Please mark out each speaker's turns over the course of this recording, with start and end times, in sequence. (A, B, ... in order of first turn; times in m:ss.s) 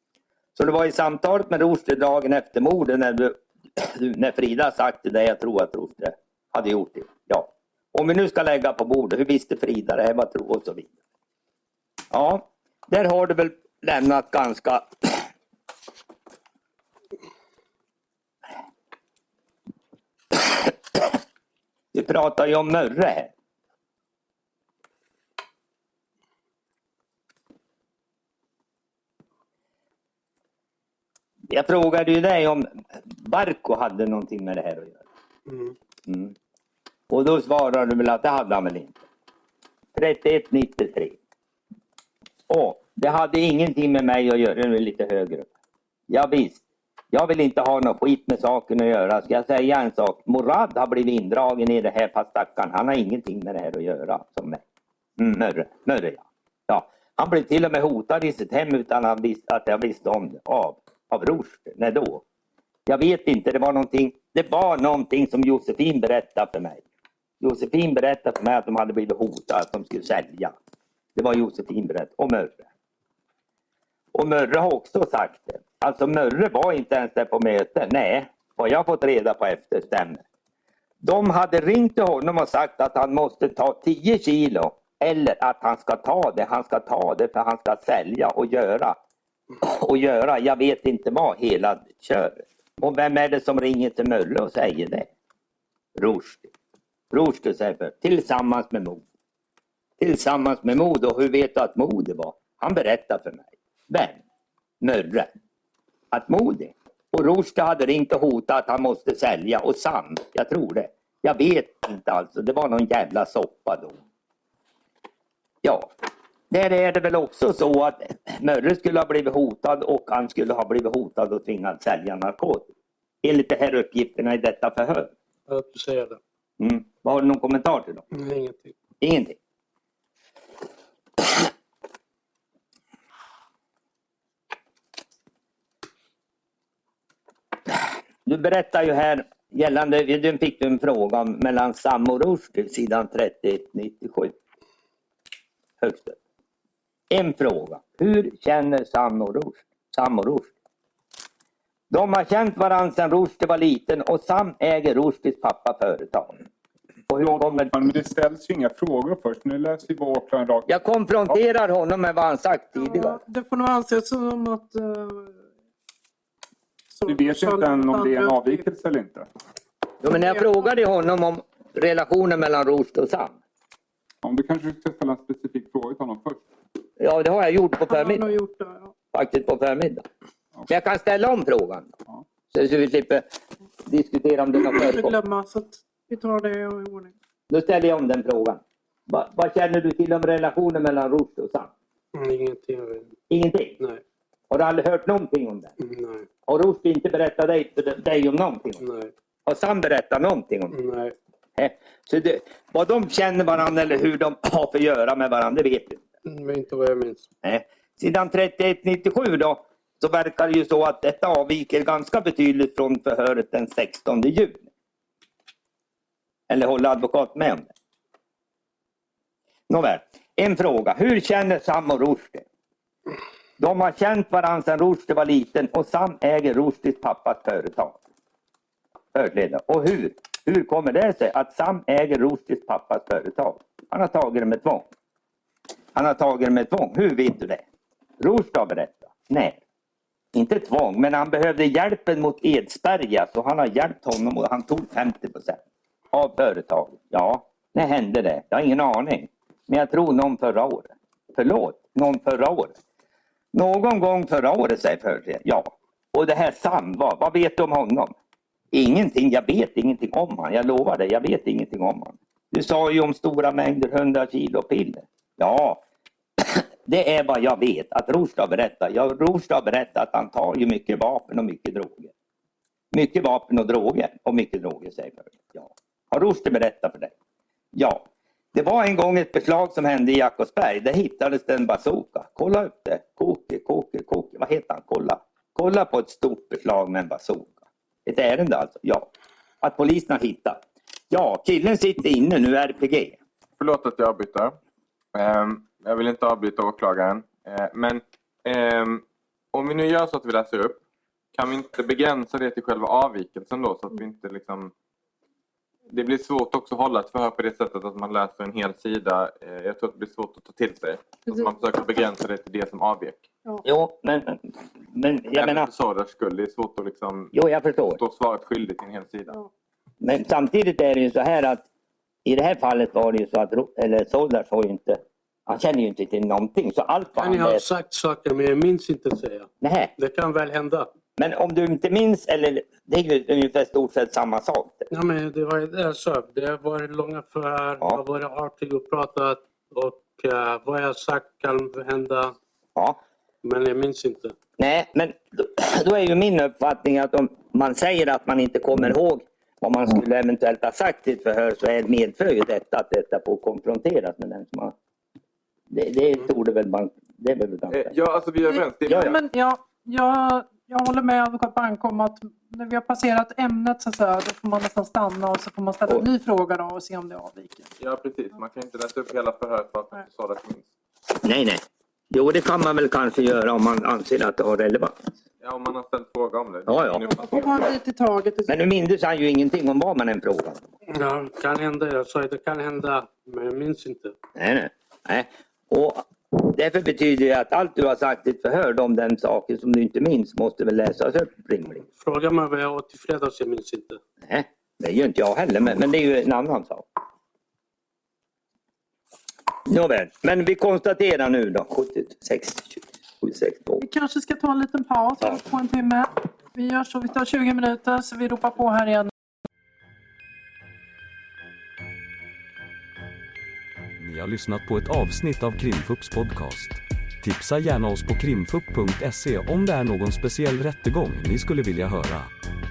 0:00.6-0:10.9 A
0:12.1-0:15.2 A
0:20.3-0:21.1 A
0:21.9-0:23.3 A
0:31.5-0:32.7 A
0:33.2-0:35.0 A
0:35.5-0:35.7 B
0:36.1-0:36.3 A
0:37.1-0:39.0 A
0:39.9-0:41.2 A
0:42.5-0:45.5 A
0:46.1-0:46.6 A
0:47.1-0:54.6 A
0:55.2-1:02.2 A
1:02.9-1:06.8 A
1:07.4-1:10.5 A
1:11.2-1:12.6 A
1:14.1-1:20.2 A
1:21.0-1:29.0 A
1:29.6-1:35.1 A
1:36.0-1:36.5 A
1:37.1-1:39.0 A
1:40.0-1:44.2 A
1:44.8-1:45.3 A
1:46.1-1:54.0 A
1:55.6-1:55.9 A
1:56.5-2:02.7 A
2:03.2-2:05.1 A
2:05.5-2:06.2 B
2:06.6-2:08.0 A
2:08.1-2:08.7 B
2:09.0-2:09.4 A
2:18.2-2:24.3 A
2:25.8-2:26.2 A
2:27.1-2:30.5 A
2:31.9-2:36.4 A
2:37.1-2:37.8 A
2:37.1-2:41.4 C
2:40.6-2:43.2 A
2:42.8-2:45.4 D
2:46.9-2:48.7 D
2:47.1-2:49.3 C
2:50.0-2:53.4 A
2:50.1-2:50.6 D
2:54.2-2:56.4 C
2:57.0-2:58.3 A
2:57.9-2:58.9 D
2:59.1-3:00.0 A
3:00.7-3:01.9 A
3:02.5-3:03.2 A
3:03.8-3:05.2 A
3:04.6-3:07.1 D
3:07.5-3:11.7 A
3:12.1-3:13.1 B
3:13.3-3:13.8 A
3:14.5-3:15.7 A
3:15.8-3:16.2 B
3:16.4-3:18.8 A
3:18.8-3:19.1 B
3:19.4-3:20.8 A
3:20.7-3:21.1 B
3:21.6-3:26.0 A
3:26.2-3:27.3 B
3:27.4-3:34.6 A
3:36.5-3:37.7 A
3:39.7-3:42.4 A
3:43.6-3:48.0 A
3:49.1-3:54.8 A
3:55.9-3:57.6 A
3:58.2-3:59.6 A
4:00.3-4:05.6 A
4:06.1-4:12.7 A
4:13.5-4:18.1 A
4:18.7-4:25.8 A
4:26.4-4:32.1 A
4:32.9-4:37.1 A
4:37.7-4:49.1 A
4:49.6-4:53.2 A
4:53.6-4:54.6 E
4:55.1-5:00.8 E
5:01.3-5:04.7 E
5:05.9-5:13.3 E
5:11.3-5:11.8 D
5:13.6-5:14.4 A
5:14.9-5:15.7 A
5:15.3-5:17.3 E
5:17.3-5:18.0 A
5:18.0-5:19.4 E
5:20.0-5:21.6 A
5:22.2-5:27.6 A
5:27.2-5:30.9 B
5:29.6-5:29.9 A
5:31.2-5:34.9 A
5:34.9-5:42.4 B
5:43.4-5:44.3 B
5:44.6-5:54.7 A
5:55.7-5:57.9 A
5:57.7-5:59.1 E
5:58.5-6:07.7 D
5:58.9-5:59.1 A
6:07.8-6:10.7 E
6:11.2-6:15.0 A
6:15.4-6:17.4 E
6:16.7-6:17.4 A
6:17.1-6:18.5 D
6:18.5-6:20.6 A
6:20.9-6:24.1 B
6:24.4-6:31.8 A
6:31.9-6:34.0 B
6:34.2-6:36.8 A
6:39.6-6:43.8 A
6:43.8-6:49.1 D
6:54.0-7:02.3 F